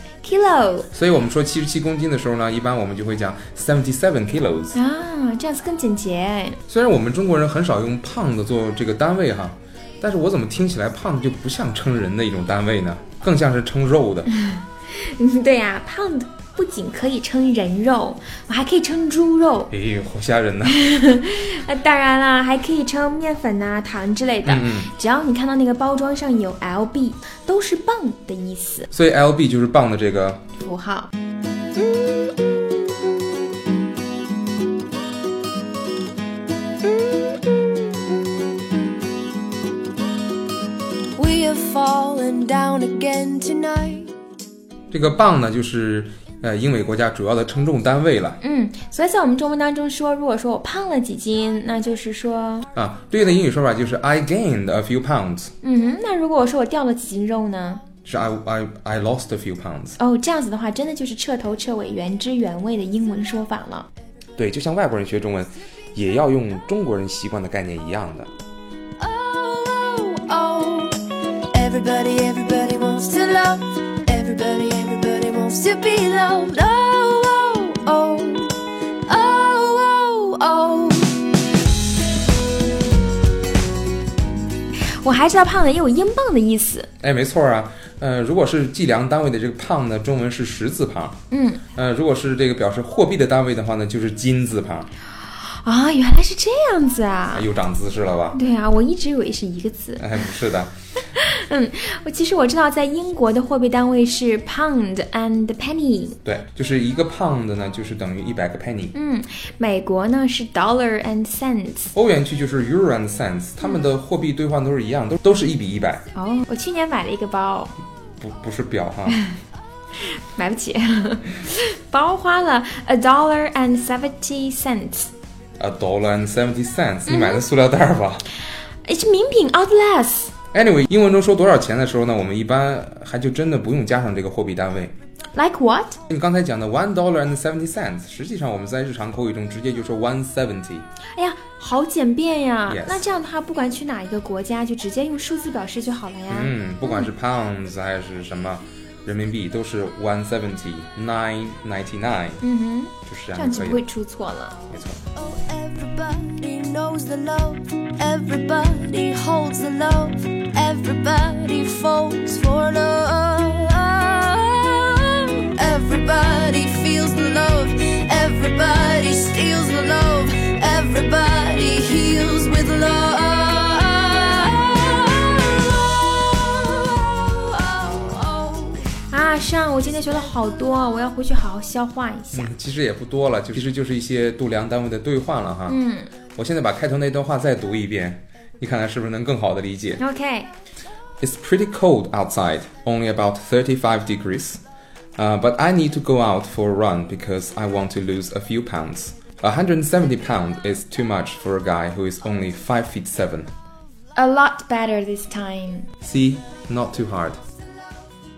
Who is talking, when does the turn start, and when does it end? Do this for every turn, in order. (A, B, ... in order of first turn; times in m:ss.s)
0:00.2-0:00.9 A
0:00.9-0:04.8 B
0:04.7-0:06.6 A
0:06.7-0:14.3 B
0:14.3-0:19.7 A
0:19.7-0:21.0 B
0:20.7-0:28.9 A
0:24.4-0:24.9 B
0:28.9-0:30.4 B
0:30.6-0:31.1 A
0:37.0-0:37.6 C
0:41.2-0:44.1 C
0:44.9-0:48.4 B
0:48.4-0:52.7 A
0:52.7-0:55.5 B
0:55.6-0:57.8 A
0:58.0-1:00.0 B
1:00.0-1:03.9 A
1:04.4-1:08.3 B
1:09.0-1:21.3 C
1:25.0-1:26.9 A
1:27.0-1:31.2 B
1:31.3-1:31.6 A
1:31.7-1:34.9 B
1:35.2-1:37.4 A
1:37.3-1:38.4 B
1:38.3-1:40.3 A
1:40.0-1:40.7 B
1:41.1-1:46.2 A
1:46.2-1:48.9 B
1:48.9-1:51.9 A
1:51.9-1:56.0 B
1:56.1-1:57.7 A
1:58.2-1:59.2 B
1:59.1-1:59.4 A
2:00.0-2:05.1 A
2:05.6-2:08.2 B
2:07.1-2:07.4 A
2:08.8-2:10.3 A
2:10.5-2:14.9 B
2:15.3-2:16.0 A
2:16.1-2:20.8 B
2:21.2-2:27.1 A
2:22.7-2:23.0 B
2:26.3-2:32.4 B
2:32.4-2:34.5 A
2:33.0-2:33.8 B
2:34.7-2:35.0 B
2:35.1-3:00.8 C
2:59.1-3:02.5 A
3:02.3-3:05.8 B
3:05.7-3:06.1 A
3:06.3-3:10.0 B
3:10.0-3:10.5 A
3:11.2-3:14.6 B
3:15.2-3:23.5 B
3:24.1-3:25.9 A
3:26.0-3:27.4 B